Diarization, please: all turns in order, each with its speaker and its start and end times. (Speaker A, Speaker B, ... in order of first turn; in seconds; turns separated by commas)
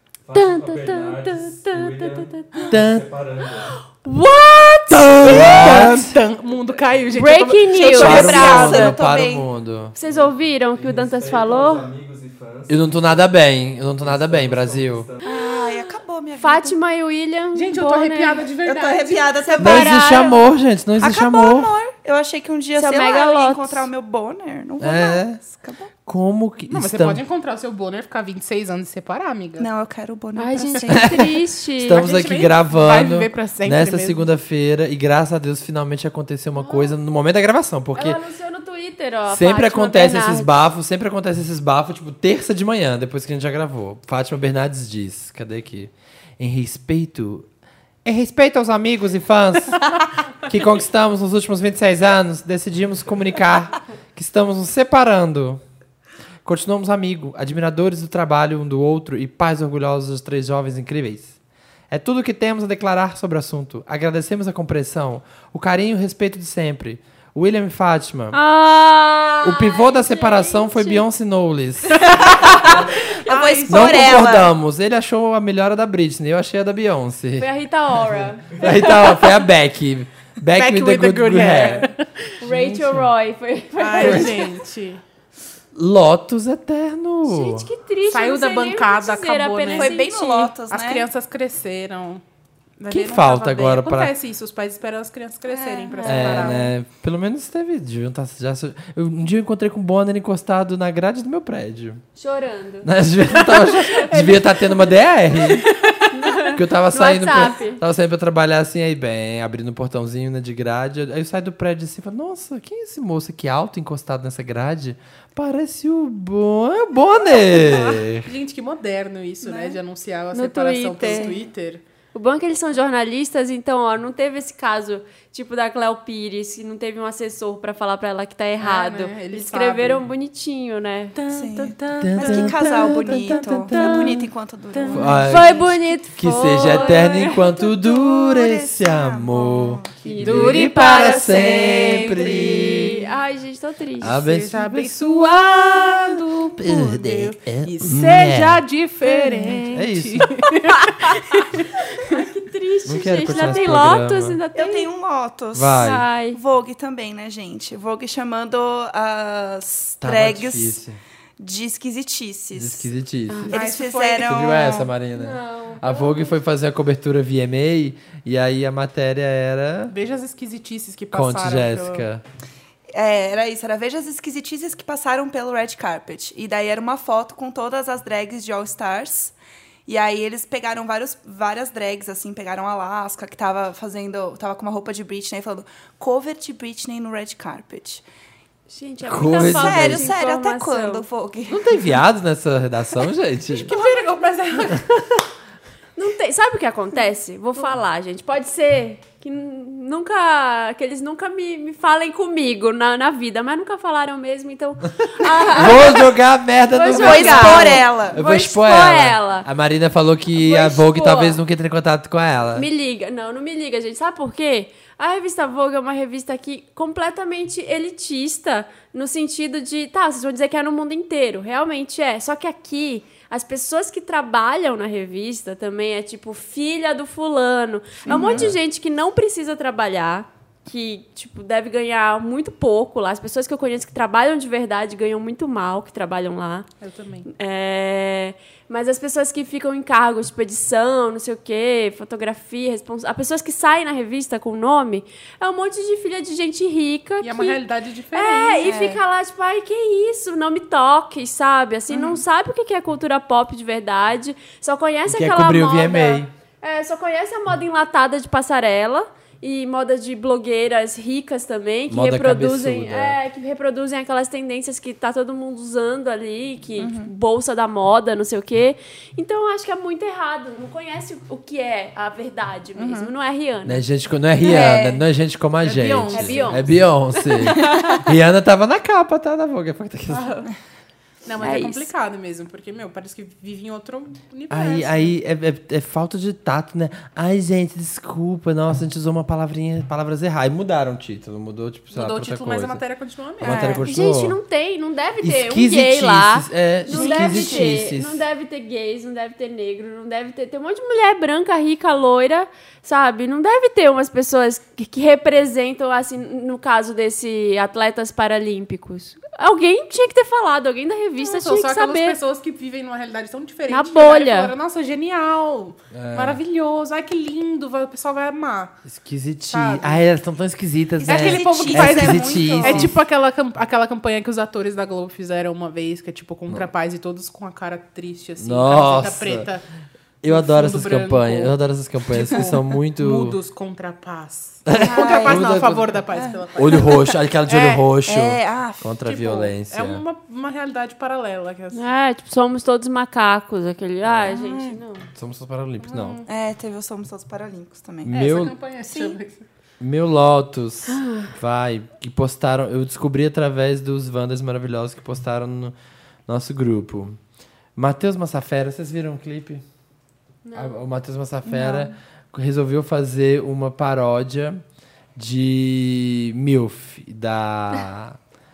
Speaker A: 0.2-3.8, Speaker B: 0.3-2.7, Speaker C: 2.7-3.0, Speaker B: 4.0-5.6, Speaker C: 5.0-6.2, Speaker D: 5.1-8.9, Speaker B: 7.1-8.6, Speaker E: 7.7-9.5, Speaker C: 7.9-9.9, Speaker B: 9.9-11.8, Speaker A: 10.0-13.3, Speaker C: 12.7-15.1, Speaker A: 14.0-15.2, Speaker E: 15.2-16.8, Speaker B: 15.2-18.4, Speaker D: 17.5-19.4, Speaker E: 18.6-20.4, Speaker C: 19.6-21.7, Speaker B: 19.6-20.1, Speaker E: 21.0-25.9, Speaker B: 22.8-23.9, Speaker C: 24.8-25.4, Speaker C: 26.1-27.2, Speaker D: 26.7-29.7, Speaker E: 29.6-31.3, Speaker B: 30.4-32.1, Speaker C: 30.9-38.2, Speaker D: 31.9-34.2, Speaker B: 36.5-36.9, Speaker B: 38.0-40.5, Speaker C: 39.3-47.5, Speaker C: 48.0-55.6, Speaker C: 56.4-61.3, Speaker C: 61.9-68.4, Speaker B: 68.3-71.0, Speaker C: 69.4-72.0, Speaker E: 72.1-74.5, Speaker D: 73.2-74.3, Speaker C: 73.7-77.5, Speaker B: 77.4-79.2, Speaker C: 78.5-81.9, Speaker D: 80.5-82.0, Speaker B: 82.4-84.4, Speaker C: 82.4-83.1, Speaker D: 83.8-85.0, Speaker C: 84.0-84.4, Speaker C: 85.7-87.7, Speaker B: 87.2-90.5, Speaker D: 88.1-92.2, Speaker E: 89.7-91.1, Speaker D: 92.8-96.7, Speaker C: 92.9-94.1, Speaker E: 95.5-96.5, Speaker C: 96.0-102.0, Speaker B: 102.2-102.9, Speaker C: 102.8-105.7, Speaker D: 103.3-106.1, Speaker B: 106.1-107.8, Speaker C: 106.5-118.3, Speaker D: 117.3-121.8, Speaker E: 119.4-119.8, Speaker B: 120.3-121.3, Speaker E: 121.0-121.4, Speaker B: 122.1-131.2, Speaker D: 128.6-130.0, Speaker D: 131.1-133.9, Speaker E: 131.3-135.8, Speaker C: 132.0-134.3, Speaker D: 134.7-135.3, Speaker C: 134.9-143.0, Speaker B: 135.3-137.6, Speaker E: 137.8-139.9, Speaker B: 140.0-144.2, Speaker D: 140.2-143.0, Speaker C: 144.0-144.7, Speaker D: 144.0-151.7, Speaker B: 144.7-146.5, Speaker C: 146.6-148.6, Speaker C: 149.7-150.3, Speaker B: 150.9-151.2, Speaker B: 152.0-154.9, Speaker C: 152.9-154.4, Speaker E: 154.5-160.8, Speaker C: 155.5-156.0, Speaker B: 155.8-156.4, Speaker C: 160.0-161.0, Speaker E: 161.4-162.9, Speaker C: 162.5-169.9, Speaker E: 163.5-164.9, Speaker D: 163.5-164.7, Speaker B: 165.1-166.3, Speaker D: 169.9-172.1, Speaker C: 171.1-172.2, Speaker E: 172.9-179.3, Speaker E: 179.8-188.0, Speaker B: 188.7-191.0, Speaker C: 189.0-190.1, Speaker E: 189.2-191.7, Speaker C: 191.5-193.7, Speaker D: 193.5-194.8, Speaker C: 194.7-195.2, Speaker B: 195.9-206.1, Speaker C: 205.4-212.7, Speaker B: 206.7-209.5, Speaker E: 206.9-208.2, Speaker B: 210.3-211.4, Speaker B: 212.5-236.7, Speaker E: 228.0-228.5, Speaker C: 228.3-228.6, Speaker D: 236.8-237.3, Speaker B: 237.2-247.6, Speaker D: 247.2-248.7, Speaker B: 248.1-273.8, Speaker E: 248.6-249.0, Speaker C: 255.1-256.3, Speaker C: 261.9-263.2, Speaker E: 266.8-267.1, Speaker E: 272.8-273.1, Speaker C: 273.6-280.4, Speaker B: 274.4-275.0, Speaker E: 274.5-274.9, Speaker D: 275.6-276.7, Speaker B: 276.1-278.0, Speaker D: 281.2-285.1, Speaker B: 281.4-281.9, Speaker C: 284.5-292.8, Speaker D: 291.9-293.8, Speaker C: 293.4-294.4, Speaker E: 293.4-293.8, Speaker B: 293.8-312.2, Speaker C: 295.2-298.2, Speaker E: 296.9-297.8, Speaker D: 311.2-318.8, Speaker B: 313.7-314.5, Speaker C: 315.9-316.4, Speaker C: 318.9-322.9, Speaker D: 319.5-320.0, Speaker D: 321.0-329.6, Speaker E: 321.0-322.9, Speaker C: 328.4-329.5, Speaker C: 330.2-333.4, Speaker D: 330.2-331.5, Speaker D: 332.1-336.9, Speaker C: 334.7-336.0, Speaker E: 334.7-339.0, Speaker C: 336.6-340.0, Speaker D: 339.1-341.8, Speaker B: 341.7-345.1, Speaker E: 344.2-344.8, Speaker C: 345.1-346.2, Speaker E: 346.2-348.1, Speaker C: 348.0-348.6, Speaker D: 348.1-349.4, Speaker E: 348.9-349.1, Speaker C: 349.8-355.7, Speaker B: 350.9-351.3, Speaker C: 356.3-357.2, Speaker C: 357.8-359.6, Speaker B: 360.4-360.8, Speaker C: 360.5-364.6, Speaker E: 361.4-361.9, Speaker C: 365.1-368.2